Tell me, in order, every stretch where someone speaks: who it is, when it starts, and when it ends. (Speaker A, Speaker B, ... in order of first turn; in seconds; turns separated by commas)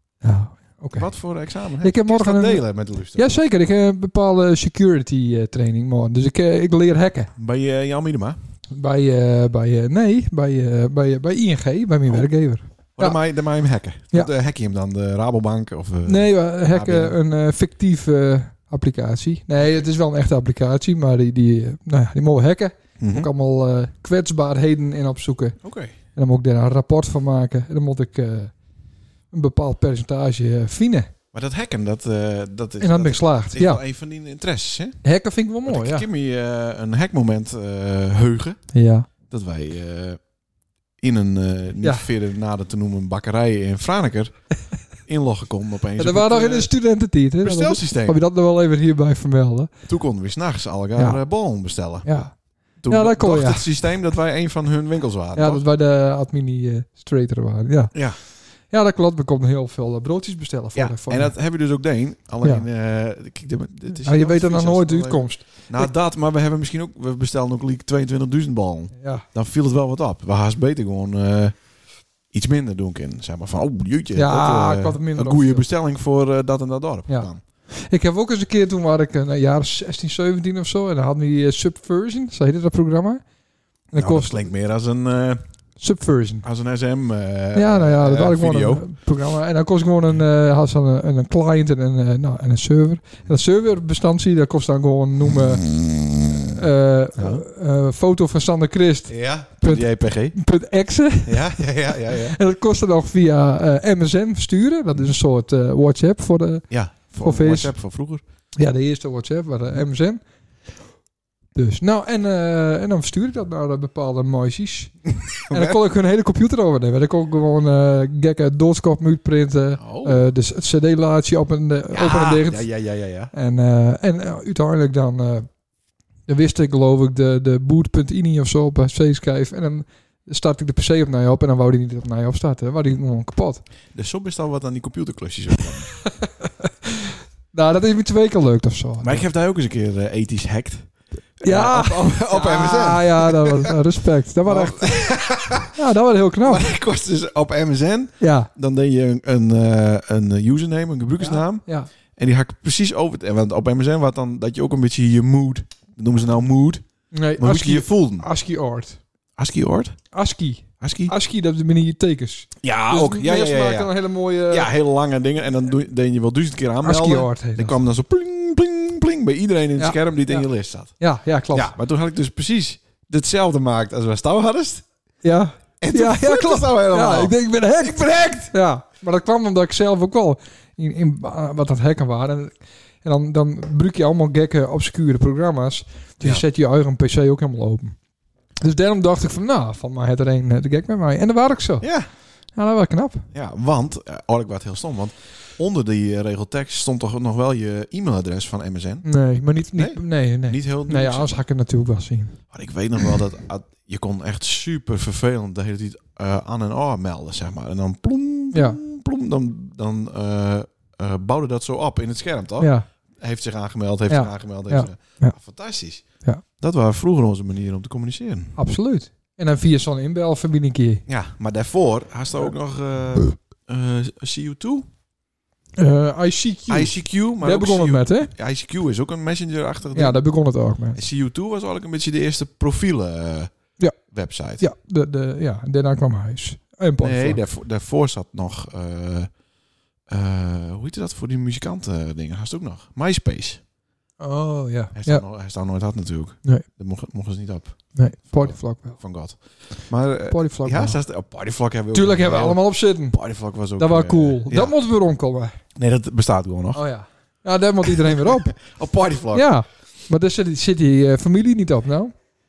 Speaker A: 0.2-1.1, Speaker B: 0.9-3.3, Speaker A: 1.8-7.3, Speaker B: 7.3-8.4, Speaker A: 8.7-13.2, Speaker B: 13.0-17.2, Speaker A: 16.0-25.6, Speaker B: 23.0-23.3, Speaker B: 25.6-25.9, Speaker A: 26.1-28.5, Speaker A: 29.3-31.1, Speaker B: 31.3-35.0, Speaker A: 32.8-33.8, Speaker A: 35.0-36.0, Speaker B: 35.6-38.6, Speaker A: 38.7-39.1, Speaker B: 39.3-40.2, Speaker B: 41.0-44.4, Speaker A: 41.8-42.1, Speaker B: 45.0-46.7, Speaker A: 46.0-49.7, Speaker B: 47.4-48.2, Speaker B: 49.9-52.1, Speaker A: 50.9-51.2, Speaker A: 52.0-52.3, Speaker B: 52.8-55.6, Speaker A: 52.9-53.7, Speaker A: 55.3-57.9, Speaker A: 58.7-61.3, Speaker B: 60.7-71.5, Speaker A: 64.0-65.9, Speaker A: 69.0-69.2, Speaker B: 72.3-77.4, Speaker A: 74.1-75.6, Speaker A: 77.1-83.2, Speaker A: 83.9-84.5, Speaker B: 83.9-85.4, Speaker A: 85.8-86.5, Speaker B: 86.4-88.9, Speaker A: 87.5-95.7, Speaker B: 95.3-96.4, Speaker A: 96.5-106.6, Speaker B: 97.2-97.4, Speaker B: 99.1-100.4, Speaker B: 101.2-102.4, Speaker B: 106.7-108.2, Speaker A: 107.2-107.7, Speaker A: 108.6-110.2, Speaker A: 111.5-114.9, Speaker B: 115.1-115.8, Speaker A: 115.5-122.7, Speaker B: 119.8-120.3, Speaker B: 121.9-123.3, Speaker A: 123.3-125.5, Speaker A: 126.3-133.6, Speaker B: 133.9-135.9, Speaker A: 136.1-139.2, Speaker B: 139.0-143.8, Speaker A: 141.4-144.9, Speaker B: 144.4-145.8, Speaker A: 145.6-146.7, Speaker B: 146.4-156.8, Speaker A: 148.2-148.5, Speaker A: 151.2-151.9, Speaker A: 157.1-159.0, Speaker B: 157.4-158.2, Speaker B: 159.4-160.0, Speaker A: 160.1-164.7, Speaker B: 160.8-161.1, Speaker B: 162.6-163.9, Speaker B: 164.5-170.9, Speaker A: 166.8-167.8, Speaker A: 169.8-170.5, Speaker A: 171.0-171.7, Speaker B: 171.5-174.8, Speaker A: 175.2-187.9, Speaker B: 175.8-178.5, Speaker A: 188.6-191.9, Speaker B: 191.8-192.1, Speaker A: 192.5-193.3, Speaker B: 193.3-199.1, Speaker A: 199.0-202.4, Speaker B: 199.7-201.3, Speaker B: 202.5-216.0, Speaker A: 208.5-208.8, Speaker A: 212.6-212.8, Speaker A: 214.1-215.3, Speaker B: 216.6-218.6, Speaker A: 218.6-221.0, Speaker B: 221.1-224.9, Speaker A: 225.8-228.3, Speaker B: 226.7-230.2, Speaker A: 229.9-231.0, Speaker B: 230.9-233.5, Speaker B: 234.1-234.6, Speaker A: 234.6-237.4, Speaker B: 237.0-239.3, Speaker B: 240.1-243.6, Speaker A: 244.2-245.2, Speaker B: 244.9-254.8, Speaker A: 247.9-249.0, Speaker A: 250.3-251.0, Speaker A: 251.9-253.2, Speaker A: 253.8-255.6, Speaker B: 255.8-256.8, Speaker A: 256.7-258.6, Speaker B: 257.9-259.5, Speaker A: 259.3-262.1